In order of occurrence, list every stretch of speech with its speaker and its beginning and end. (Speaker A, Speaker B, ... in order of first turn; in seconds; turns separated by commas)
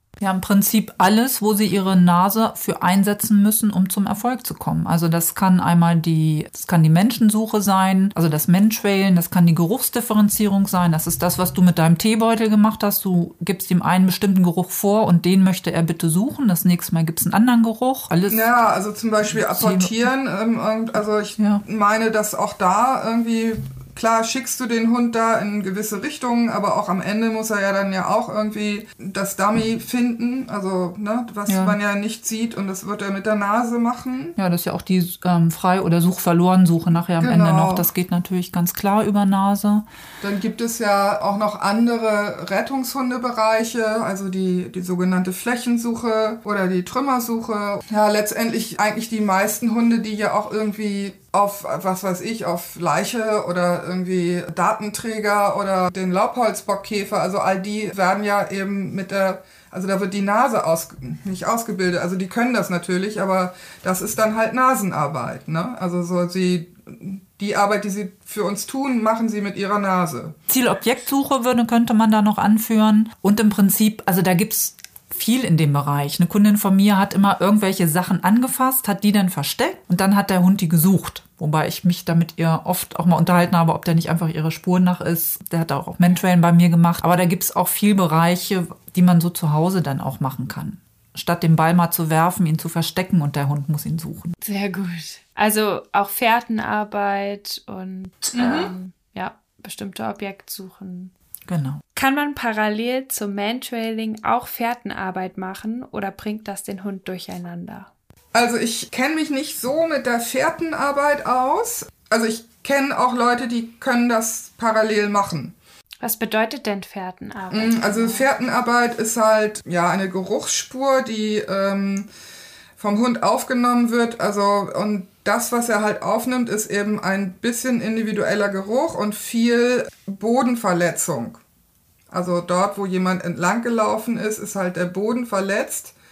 Speaker A: 0.2-18.5, Speaker B: 18.3-34.4, Speaker A: 19.3-20.0, Speaker A: 21.4-21.6, Speaker A: 31.5-31.8, Speaker A: 34.4-39.8, Speaker B: 37.2-37.9, Speaker B: 40.2-70.4, Speaker A: 70.5-94.3, Speaker C: 94.4-101.1, Speaker B: 98.3-98.7, Speaker A: 101.5-101.8, Speaker C: 102.0-107.9, Speaker B: 108.3-115.5, Speaker C: 116.0-118.3, Speaker B: 117.5-122.1, Speaker B: 122.8-131.4, Speaker B: 132.1-135.9